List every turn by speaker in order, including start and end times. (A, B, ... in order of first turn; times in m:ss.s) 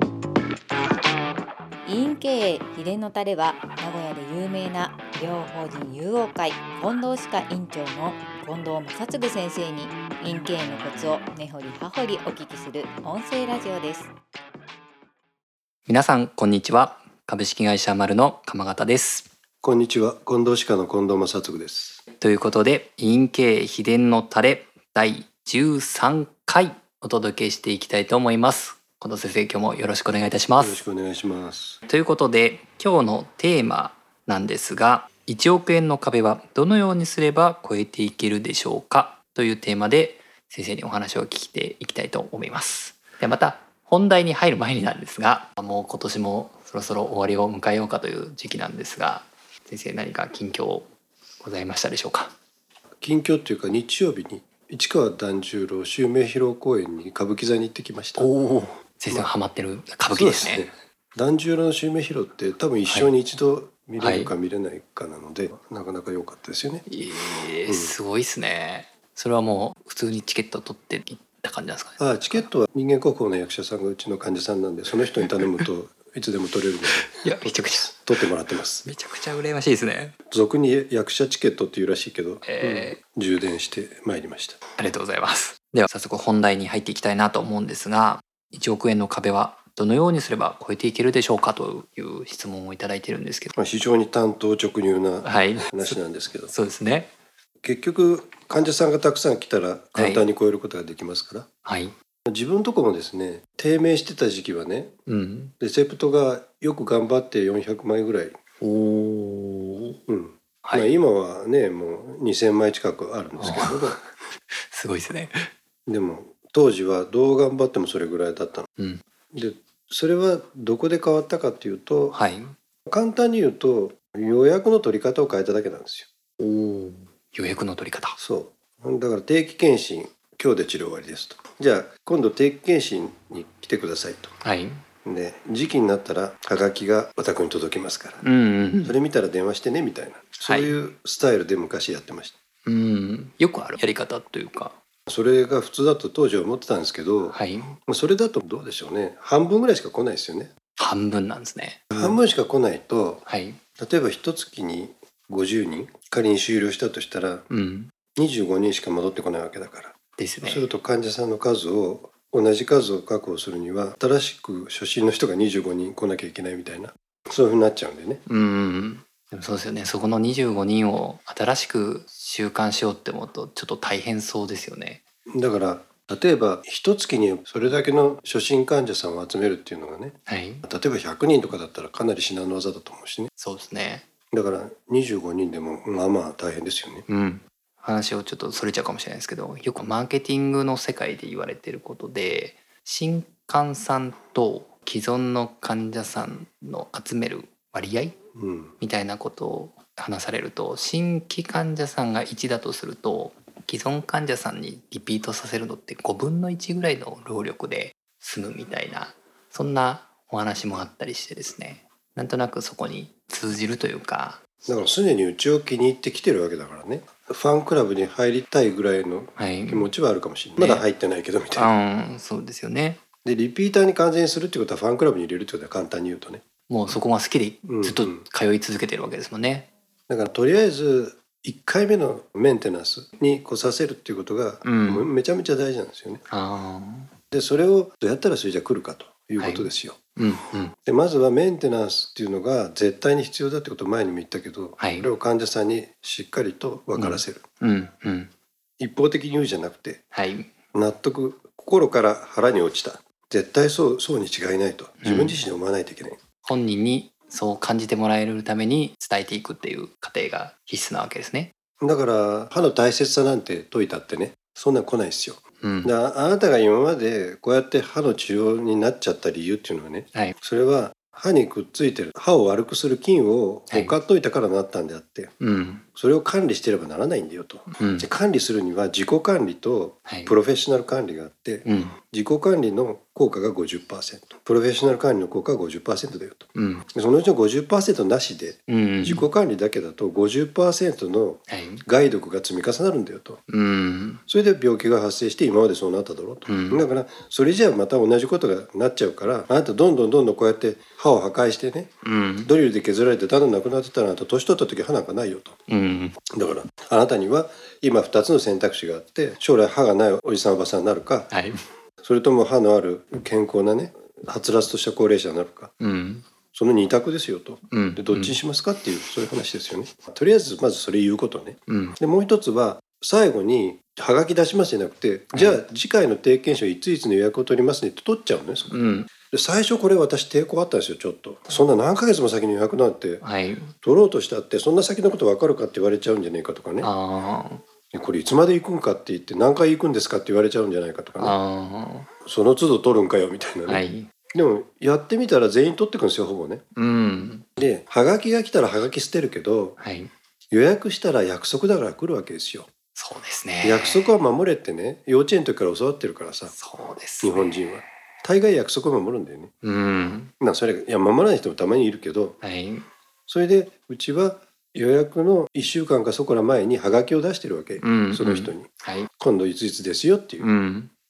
0:01.8-0:14.1 A
0:15.9-0:19.3 B
0:19.6-0:22.0 C
0:22.2-0:30.8 B
0:30.6-0:31.8 C
0:31.8-0:50.9 B
0:51.4-0:52.3 B
0:53.0-0:58.3 C
0:58.2-1:00.7 B
1:00.1-1:06.8 C
1:04.0-1:04.3 B
1:06.9-1:12.4 B
1:07.7-1:07.9 C
1:12.0-1:18.8 C
1:17.0-1:17.9 B
1:18.8-1:20.2 B
1:20.3-1:24.6 C
1:22.4-1:23.0 B
1:24.8-1:33.5 B
1:33.6-1:36.5 C
1:35.2-1:37.1 B
1:37.6-1:41.5 C
1:39.9-1:40.2 B
1:41.6-1:41.9 B
1:42.3-1:44.9 C
1:45.1-1:45.5 B
1:45.6-1:48.3 C
1:48.6-1:50.0 B
1:50.1-1:54.0 C
1:50.6-1:50.9 B
1:53.4-1:55.5 B
1:55.9-1:58.7 C
1:58.8-1:59.0 B
1:59.3-2:02.2 C
2:02.1-2:02.5 B
2:02.9-2:06.1 C
2:06.4-2:08.2 B
2:08.2-2:14.3 C
2:14.4-2:14.8 B
2:15.0-2:18.2 C
2:18.2-2:19.0 B
2:18.8-2:22.4 C
2:20.4-2:20.7 B
2:22.6-2:24.7 B
2:25.1-2:30.5 C
2:27.3-2:27.8 B
2:30.8-2:32.2 B
2:31.9-2:33.2 C
2:33.2-2:33.6 B
2:33.8-2:37.4 C
2:37.5-2:37.9 B
2:38.2-2:48.2 C
2:40.2-2:40.7 B
2:48.2-2:55.0 B
2:55.3-3:03.3 C
3:00.3-3:00.6 B
3:03.4-3:04.0 B
3:04.3-3:07.0 C
3:07.1-3:18.2 B
3:18.4-3:18.7 C
3:18.8-3:34.4 B
3:34.6-3:41.7 C
3:39.4-3:39.9 B
3:40.6-3:40.8 B
3:41.5-3:43.0 B
3:43.2-3:46.4 C
3:46.7-3:49.7 B
3:47.7-3:48.2 C
3:50.1-3:56.2 C
3:54.6-3:55.1 B
3:56.3-3:57.1 B
3:57.3-4:00.0 C
3:59.4-4:00.7 B
4:00.8-4:07.4 C
4:04.8-4:05.1 B
4:07.0-4:08.3 B
4:08.8-4:10.0 C
4:10.1-4:10.5 B
4:10.7-4:16.2 C
4:15.0-4:15.4 B
4:16.4-4:21.5 B
4:21.8-4:35.3 C
4:25.6-4:25.9 B
4:33.7-4:33.9 B
4:35.4-4:35.8 B
4:35.9-4:53.4 C
4:37.8-4:38.1 B
4:40.0-4:40.3 B
4:41.6-4:41.9 B
4:46.5-4:46.8 B
4:48.7-4:49.2 B
4:51.5-4:51.8 B
4:53.5-4:54.2 B
4:54.3-5:01.9 C
4:56.5-4:56.8 B
5:02.0-5:02.5 B
5:02.4-5:05.6 C
5:05.7-5:06.2 B
5:06.3-5:11.3 C
5:11.3-5:11.6 B
5:12.0-5:15.7 C
5:15.8-5:16.2 B
5:16.5-5:28.8 C
5:17.7-5:18.4 B
5:21.7-5:22.0 B
5:25.3-5:25.6 B
5:28.7-5:29.1 B
5:29.3-5:33.2 C
5:33.2-5:33.7 B
5:33.8-5:36.9 C
5:36.8-5:37.6 B
5:37.9-5:41.4 C
5:41.2-5:42.1 B
5:42.2-5:46.6 C
5:43.7-5:44.1 B
5:46.8-5:47.4 B
5:47.6-5:49.8 C
5:49.8-5:50.1 B
5:50.5-5:52.7 C
5:53.0-5:54.1 B
5:53.6-5:56.5 C
5:56.5-5:57.5 B
5:57.2-5:59.5 C
5:59.6-6:00.3 B
6:00.4-6:02.4 C
6:02.4-6:02.9 B
6:03.3-6:10.5 C
6:07.8-6:09.1 B
6:10.4-6:10.9 B